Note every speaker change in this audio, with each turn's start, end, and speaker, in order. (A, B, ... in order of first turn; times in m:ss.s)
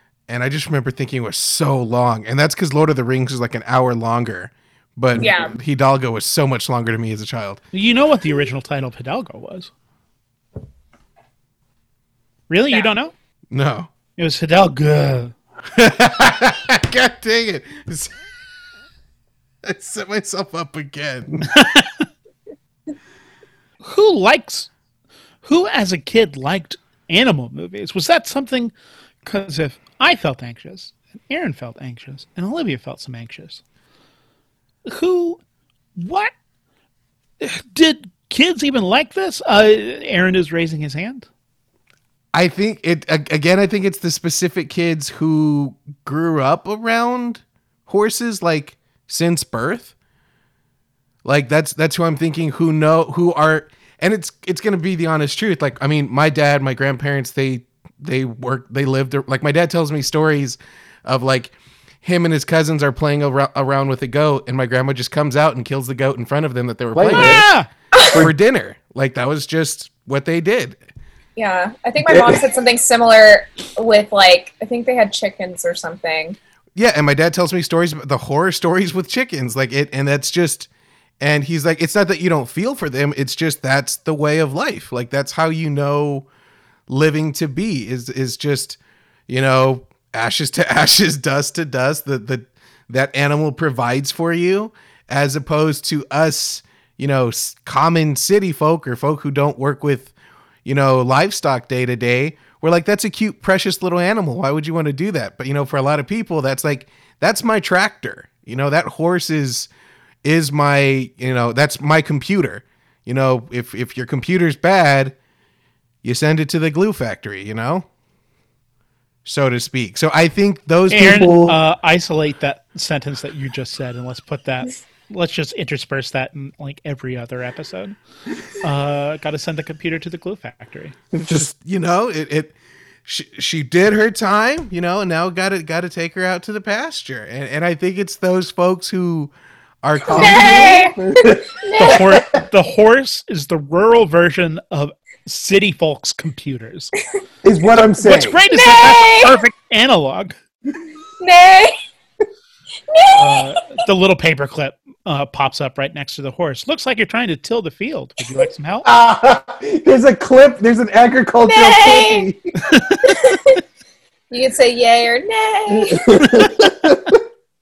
0:00.3-0:07.6 A
0:05.2-0:05.5 B
0:07.7-0:09.7 C
0:12.5-0:13.1 C
0:13.5-0:13.9 A
0:14.2-0:15.3 C
0:15.7-0:18.1 A
0:19.6-0:21.5 A
0:21.5-0:22.0 C
0:23.8-0:24.7 C
0:25.4-0:28.7 C
0:29.2-0:33.6 C
0:34.8-0:35.4 C
0:36.0-0:36.3 C
0:37.4-0:41.3 C
0:42.3-0:49.9 A
0:51.2-1:07.4 A
1:06.9-1:07.4 D
1:07.1-1:07.7 C
1:08.0-1:08.2 B
1:08.2-1:10.8 A
1:11.4-1:16.4 B
1:12.1-1:12.4 D
1:16.8-1:20.7 A
1:21.2-1:26.3 A
1:26.9-1:40.1 A
1:40.6-1:49.7 A
1:50.2-1:55.1 A
1:56.0-1:57.9 A
1:59.2-2:01.6 A
2:00.9-2:08.0 C
2:08.6-2:11.0 C
2:11.1-2:11.5 D
2:11.2-2:12.5 A
2:13.0-2:19.3 A
2:19.8-2:20.8 A
2:20.0-2:22.4 D
2:20.1-2:21.0 B
2:21.6-2:22.0 B
2:21.8-2:26.9 C
2:27.4-2:28.4 D
2:28.0-2:30.3 C
2:28.5-2:29.4 B
2:31.2-2:31.7 B
2:32.9-2:33.6 B
2:33.1-2:38.9 C
2:38.8-2:42.4 D
2:41.4-2:42.3 B
2:42.7-2:43.2 C
2:43.1-2:43.3 B
2:44.3-2:46.1 B
2:45.7-2:47.2 D